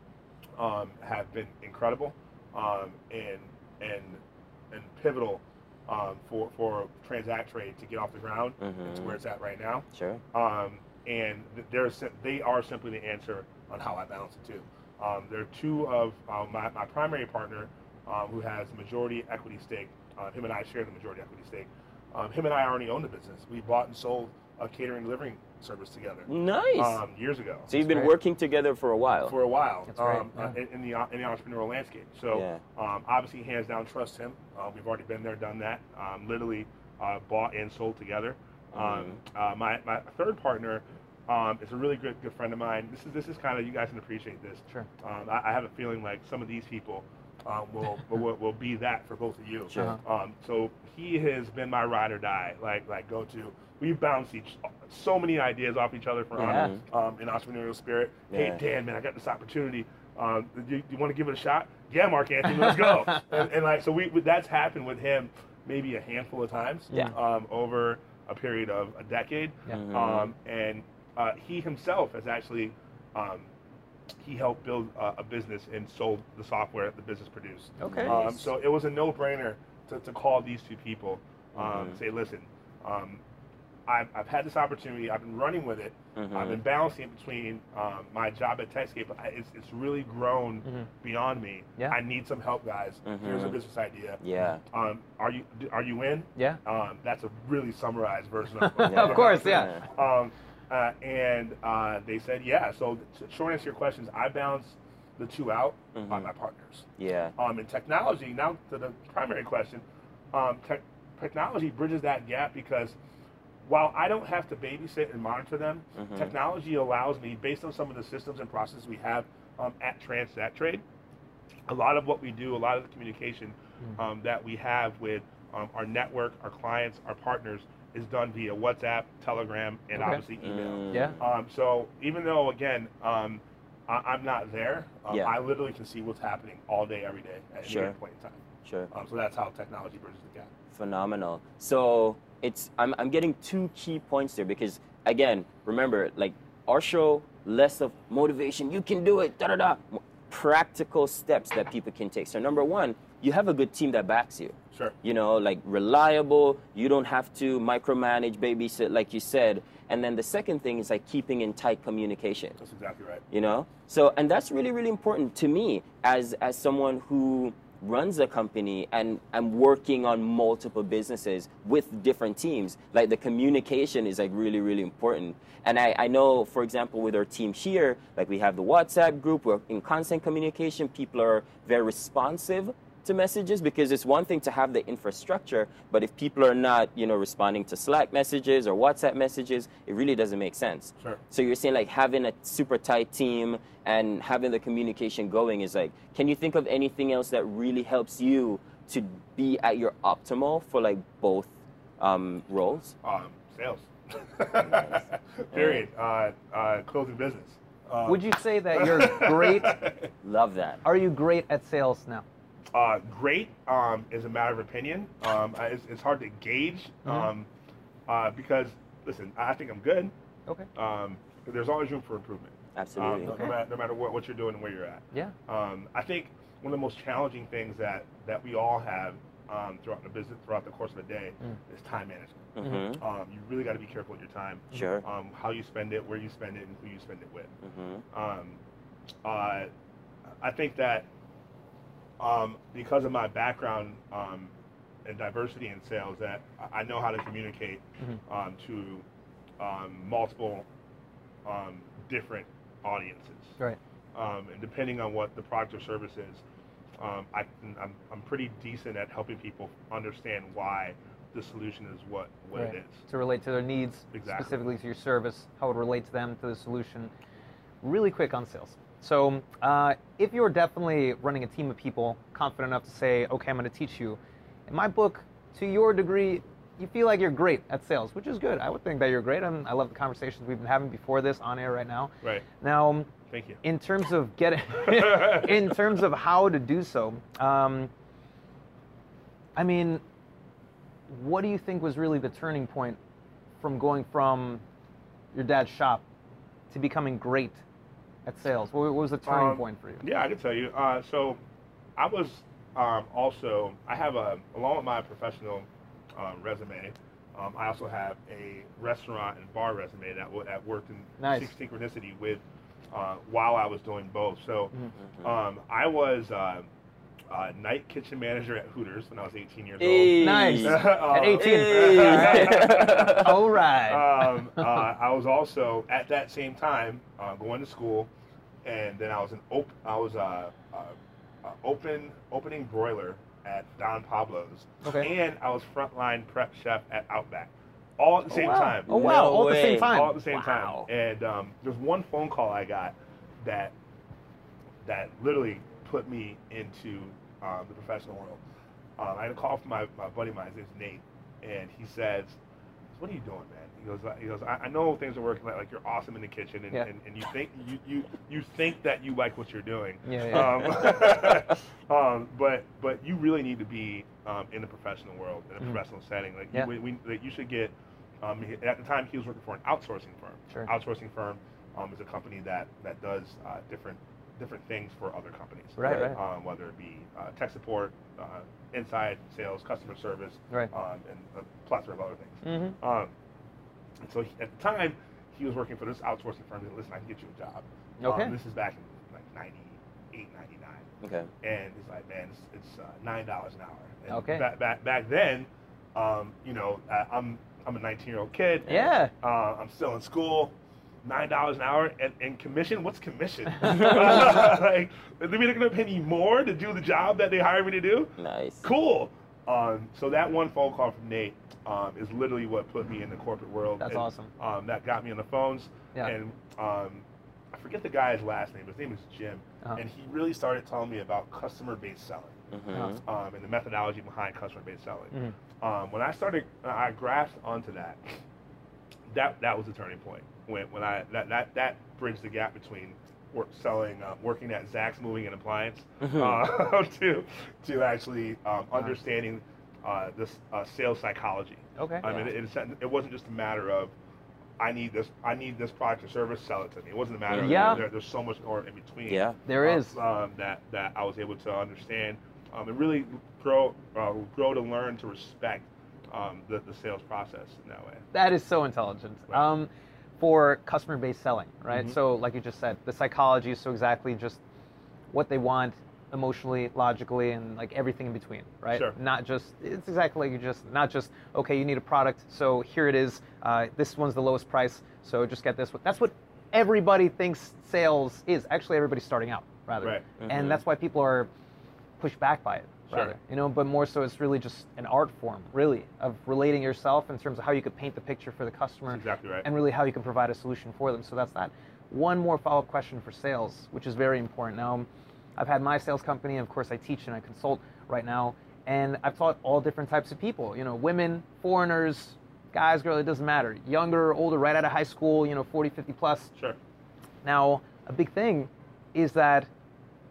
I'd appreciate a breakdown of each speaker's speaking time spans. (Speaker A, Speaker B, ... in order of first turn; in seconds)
Speaker A: 0.6-27.7, 29.3-73.5, 74.2-83.2, 83.9-113.0, 113.6-120.8, 121.7-140.5, 162.6-163.2, 203.0-210.1, 212.7-217.5, 218.1-220.1, 220.8-237.5, 238.1-238.6, 239.2-239.7, 240.4-241.1, 242.2-244.5, 245.0-249.0, 249.6-250.7, 251.4-253.6, 254.1-256.4, 257.0-263.0, 264.1-264.6, 283.3-283.6, 284.8-285.8, 299.2-301.4, 302.0-316.7, 317.3-328.1, 328.6-343.8, 344.8-348.4, 349.0-352.4, 352.9-383.1, 384.0-390.9, 391.4-422.4, 423.0-428.2, 429.1-443.9, 444.6-458.0, 461.7-462.0, 468.7-469.0, 488.9-489.5
Speaker B: 8.6-9.2, 9.9-10.2, 26.3-27.0, 27.7-29.4, 32.3-32.6, 38.8-39.2, 49.7-50.0, 56.4-56.8, 58.3-58.6, 69.7-70.3, 77.8-78.5, 81.5-82.0, 86.2-86.6, 93.0-93.6, 94.2-94.6, 98.8-99.9, 105.9-106.3, 107.0-107.3, 116.0-116.3, 130.4-131.2, 137.6-138.0, 138.7-138.9, 140.7-162.6, 163.3-202.9, 205.5-205.8, 210.2-210.8, 222.8-223.4, 232.6-233.0, 234.7-235.0, 237.6-238.0, 319.8-323.4, 338.9-339.9, 375.8-376.1, 391.0-391.3, 408.2-408.7, 422.5-423.0, 436.0-436.4, 442.0-442.3, 447.3-447.8, 449.1-449.4, 480.2-480.6
Speaker C: 27.8-28.1, 29.9-30.5, 56.4-56.8, 77.8-78.2, 98.6-99.7, 129.9-130.2, 130.9-131.2, 208.0-209.8, 210.8-212.2, 217.0-217.3, 223.2-223.6, 232.6-232.9, 262.5-267.1, 267.8-283.1, 283.6-287.9, 289.6-290.0, 291.1-293.0, 293.6-294.6, 295.3-296.0, 296.7-297.6, 298.2-300.0, 311.2-311.5, 320.2-324.7, 334.8-335.1, 338.3-340.9, 360.1-360.6, 375.8-376.2, 382.4-382.8, 388.0-388.4, 394.1-394.5, 398.7-399.1, 403.6-404.1, 413.8-414.3, 422.7-423.0, 441.8-442.0, 447.4-447.8, 449.5-450.0, 458.1-464.4, 465.1-481.3, 482.0-506.3, 507.2-509.5